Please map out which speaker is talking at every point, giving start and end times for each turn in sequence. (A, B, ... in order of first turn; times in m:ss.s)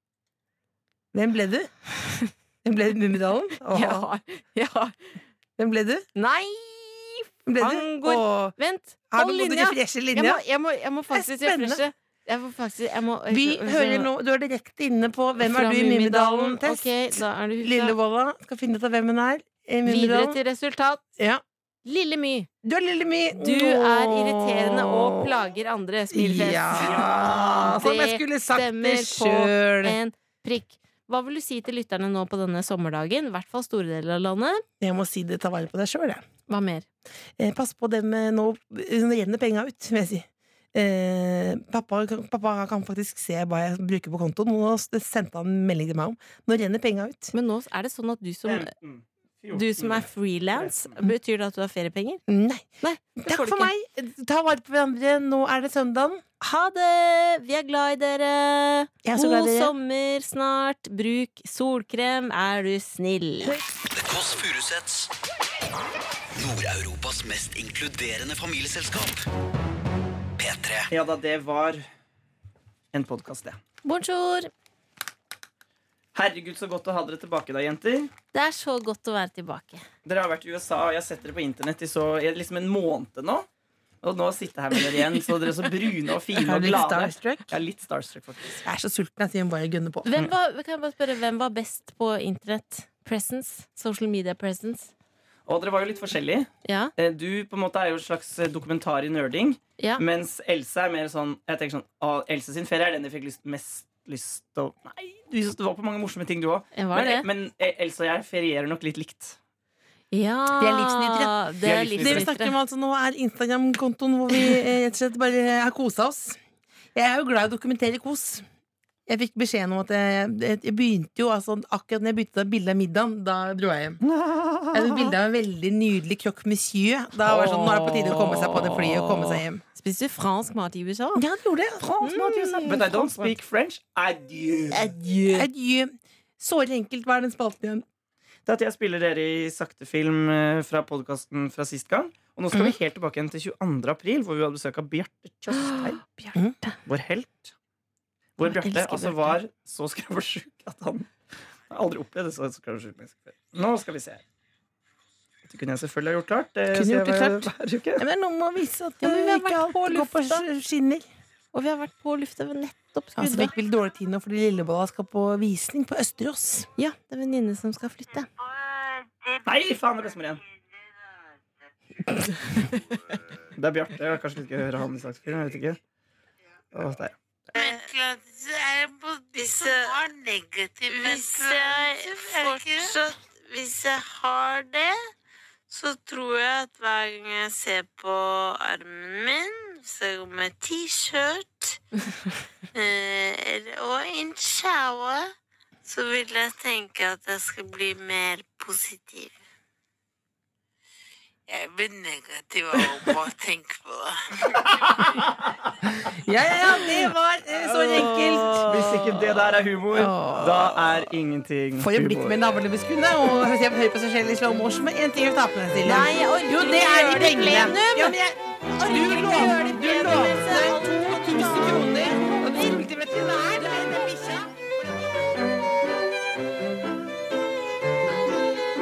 0:01.1-0:01.7 A
0:02.6-0:04.1 A
0:03.7-0:05.0 B
0:05.6-0:06.0 A
0:06.2-0:14.1 B
0:07.4-0:08.6 A
0:09.1-0:10.4 A
0:11.1-0:11.8 A
0:13.3-0:20.4 A
0:15.4-0:18.0 B
0:19.8-0:21.0 B
0:21.8-0:22.5 B
0:22.6-0:25.4 A
0:23.3-0:34.6 B
0:26.1-0:30.0 A
0:34.8-0:36.2 A
0:36.5-0:36.8 B
0:37.4-0:47.3 A
0:47.3-0:48.7 B
0:48.4-0:51.0 C
0:49.5-0:52.2 B
0:52.3-0:56.2 A
0:52.8-0:53.7 B
0:56.4-1:03.5 B
0:59.0-0:59.7 A
1:03.9-1:05.1 D
1:06.4-1:09.2 D
1:10.4-1:10.9 D
1:10.9-1:11.8 C
1:12.9-1:13.6 C
1:13.8-1:14.5 B
1:16.1-1:18.1 C
1:18.3-1:19.8 B
1:20.0-1:23.4 C
1:24.0-1:28.6 C
1:26.4-1:27.5 A
1:28.6-1:30.1 A
1:30.0-1:34.9 B
1:35.4-1:49.4 C
1:36.6-1:36.9 B
1:46.7-1:47.2 B
1:50.1-1:52.5 B
1:50.6-1:51.4 A
1:51.6-1:52.3 C
1:52.0-1:56.4 A
1:56.9-1:58.4 A
1:59.1-2:04.0 A
2:04.0-2:05.1 C
2:04.7-2:09.6 A
2:07.2-2:11.2 B
2:11.1-2:12.9 A
2:11.8-2:13.3 B
2:12.0-2:14.9 C
2:14.7-2:15.5 B
2:15.3-2:17.8 A
2:18.4-2:26.0 C
2:25.6-2:26.7 B
2:26.8-2:27.5 C
2:28.4-2:31.1 C
2:28.4-2:29.4 B
2:31.7-2:34.2 C
2:35.4-2:38.0 C
2:36.7-2:41.1 A
2:39.0-2:40.4 B
2:41.5-2:43.5 B
2:43.2-2:46.7 A
2:46.8-2:48.3 B
2:49.4-2:50.4 C
2:53.5-2:55.8 C
2:56.7-2:57.6 C
2:57.5-3:05.0 E
3:05.7-3:11.8 E
3:12.7-3:15.3 E
3:15.8-3:19.3 E
3:21.5-3:24.8 E
3:24.8-3:25.3 C
3:26.1-3:28.8 A
3:27.7-3:29.0 B
3:28.5-3:32.4 C
3:29.9-3:31.1 A
3:31.8-3:44.6 A
3:35.8-3:38.2 B
3:38.8-3:42.8 B